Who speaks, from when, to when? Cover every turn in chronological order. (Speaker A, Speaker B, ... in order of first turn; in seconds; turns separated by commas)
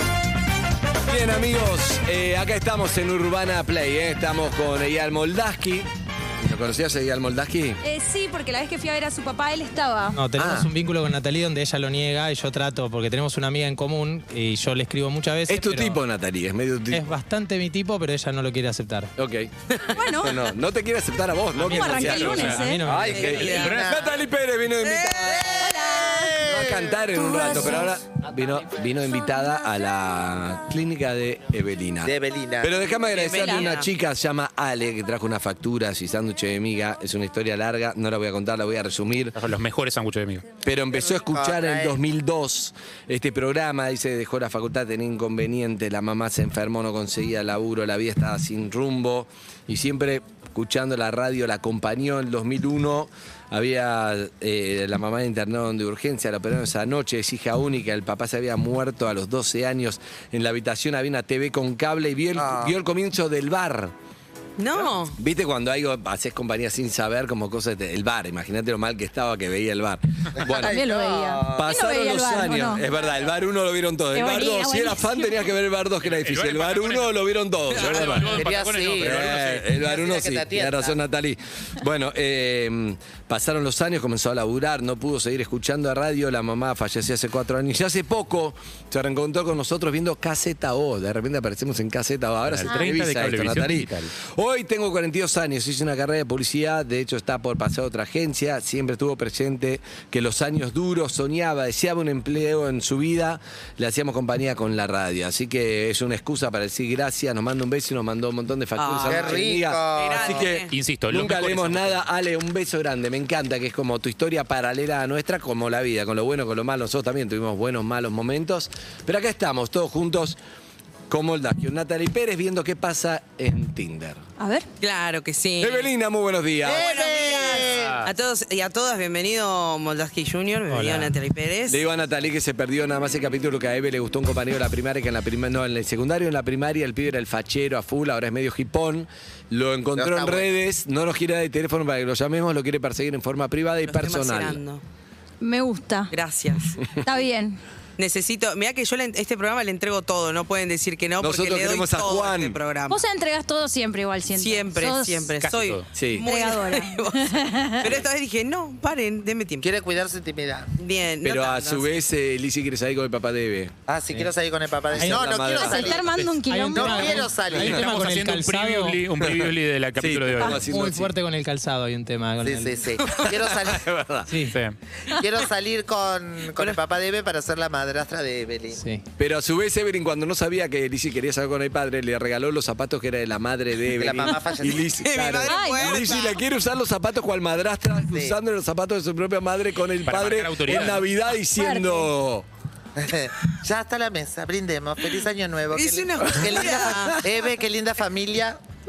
Speaker A: 1.1-5.9, Speaker A: 6.4-7.8, Speaker B: 7.8-10.2, Speaker C: 10.1-16.0, Speaker A: 10.4-10.7, Speaker A: 15.5-17.1, Speaker C: 16.9-19.1, Speaker A: 19.2-39.4, Speaker B: 19.9-20.5, Speaker D: 21.6-24.0, Speaker B: 21.6-23.1, Speaker C: 21.6-23.1, Speaker E: 23.1-23.7, Speaker F: 23.1-24.2, Speaker E: 24.8-25.4, Speaker F: 25.1-27.0, Speaker B: 25.6-26.4, Speaker B: 27.1-28.0, Speaker F: 32.0-32.8, Speaker E: 33.1-33.9, Speaker B: 33.3-33.7, Speaker D: 39.4-40.5, Speaker A: 40.6-63.9, Speaker F: 40.9-42.0, Speaker F: 62.4-62.8, Speaker E: 64.6-65.2, Speaker A: 64.9-70.8, Speaker F: 70.4-71.8, Speaker B: 70.6-72.9, Speaker A: 71.6-78.4, Speaker B: 74.1-75.4, Speaker D: 76.0-77.2, Speaker D: 77.7-79.7, Speaker E: 77.8-78.2, Speaker F: 78.2-81.0, Speaker A: 79.0-120.4, Speaker D: 92.5-94.1, Speaker E: 108.8-110.7, Speaker F: 109.0-110.4, Speaker D: 110.1-112.0, Speaker A: 121.1-124.2, Speaker B: 124.4-124.7, Speaker E: 124.8-125.9, Speaker A: 125.6-126.9, Speaker F: 126.6-128.1, Speaker E: 126.6-131.8, Speaker D: 127.6-128.1, Speaker C: 130.7-131.2, Speaker A: 131.7-144.6, Speaker F: 139.9-140.5, Speaker E: 143.8-144.8, Speaker B: 145.4-146.1, Speaker E: 146.1-146.8, Speaker B: 147.0-147.6, Speaker E: 148.0-153.0, Speaker A: 151.2-152.6, Speaker B: 152.9-155.3, Speaker E: 154.3-159.7, Speaker D: 155.4-155.9, Speaker A: 155.9-156.3, Speaker B: 156.2-158.0, Speaker F: 159.6-160.7, Speaker E: 160.8-162.0, Speaker A: 161.2-163.7, Speaker F: 163.9-167.8, Speaker C: 164.1-164.3, Speaker C: 164.9-165.2, Speaker A: 165.0-166.4, Speaker B: 165.6-167.2, Speaker C: 166.4-169.0, Speaker A: 167.5-167.8, Speaker D: 167.6-170.6, Speaker A: 169.2-171.1, Speaker B: 170.4-170.7, Speaker C: 170.7-172.9, Speaker F: 172.4-173.9, Speaker A: 173.0-174.3, Speaker C: 174.3-174.6, Speaker F: 175.1-178.8, Speaker C: 178.7-179.0, Speaker A: 179.2-192.5, Speaker F: 183.9-184.9, Speaker E: 185.0-186.4, Speaker B: 185.5-186.0, Speaker F: 188.1-188.4, Speaker D: 190.0-191.1, Speaker B: 191.6-192.1, Speaker F: 193.0-198.6, Speaker E: 195.7-197.2, Speaker A: 196.4-197.1